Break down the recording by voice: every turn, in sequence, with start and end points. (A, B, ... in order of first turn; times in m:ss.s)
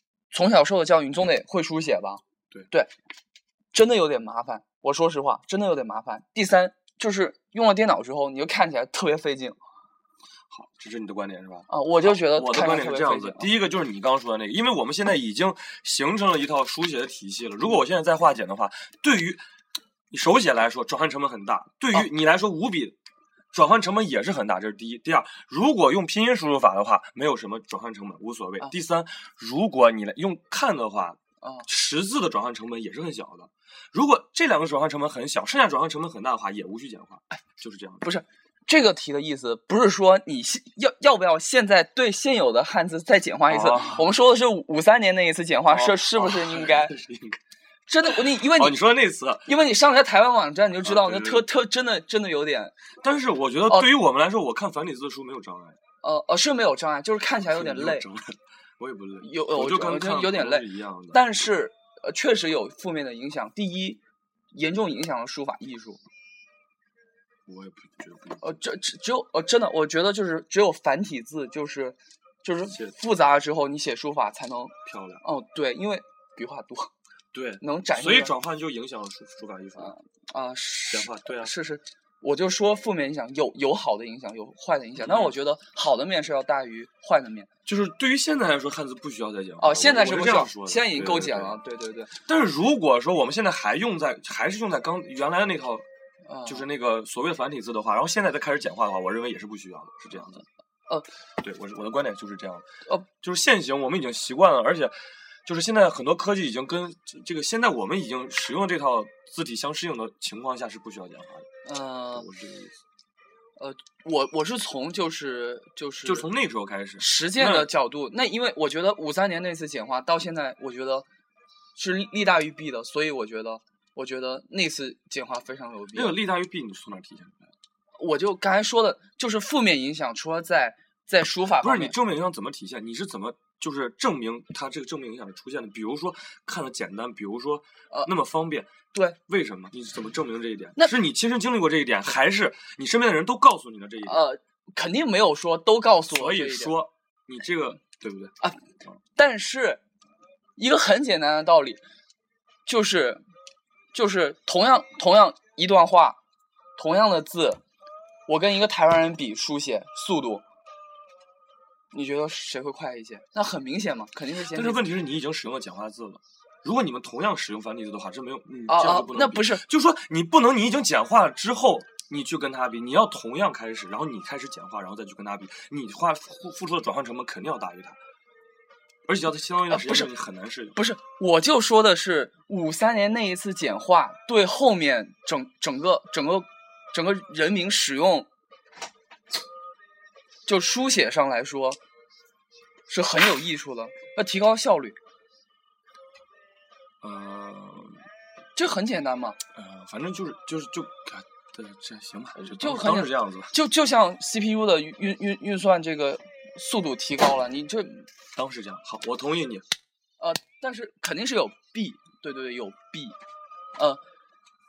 0:00.3-0:02.9 A
0:03.7-0:09.6 A
0:10.5-0:19.4 B
0:11.7-0:13.5 A
0:20.1-0:23.0 B
0:23.5-0:38.1 B
0:38.0-0:46.9 A
0:43.5-0:44.1 B
0:45.7-0:47.4 B
0:47.9-0:48.8 A
0:48.1-0:49.5 B
0:49.5-0:52.7 A
0:50.8-0:51.5 B
0:53.0-0:55.8 B
0:56.0-0:58.1 A
0:57.4-1:01.2 B
0:59.2-1:04.0 A
1:04.5-1:06.0 A
1:07.5-1:08.6 B
1:08.4-1:16.9 A
1:12.7-1:13.0 B
1:14.8-1:15.2 B
1:17.3-1:20.0 B
1:17.6-1:18.3 A
1:19.8-1:27.5 A
1:20.9-1:21.5 B
1:25.0-1:25.4 B
1:27.7-1:31.6 B
1:29.6-1:32.2 A
1:32.2-1:35.9 B
1:36.3-1:36.7 A
1:36.5-1:40.4 B
1:41.4-1:42.6 B
1:43.2-1:51.5 B
1:51.6-1:52.3 A
1:52.1-1:52.8 B
1:53.6-1:56.3 A
1:56.0-1:57.7 B
1:57.0-2:01.1 A
2:01.8-2:06.2 A
2:06.0-2:07.5 B
2:08.0-2:12.0 A
2:11.6-2:18.7 B
2:19.3-2:24.3 B
2:24.0-2:26.8 A
2:26.1-2:28.4 B
2:29.2-2:29.8 A
2:30.6-2:31.8 A
2:32.7-2:33.2 A
2:33.9-2:36.2 A
2:36.8-2:37.6 A
2:38.3-2:40.4 A
2:41.9-2:44.8 A
2:44.5-2:58.0 B
2:48.7-2:49.6 A
2:59.1-3:00.8 B
2:59.7-3:00.1 A
3:00.8-3:08.3 A
3:10.5-3:11.8 A
3:12.9-3:15.0 A
3:17.0-3:18.0 B
3:18.6-3:19.4 A
3:19.6-3:23.5 B
3:22.4-3:28.1 A
3:28.4-3:29.6 B
3:30.2-3:33.2 A
3:33.8-3:34.0 A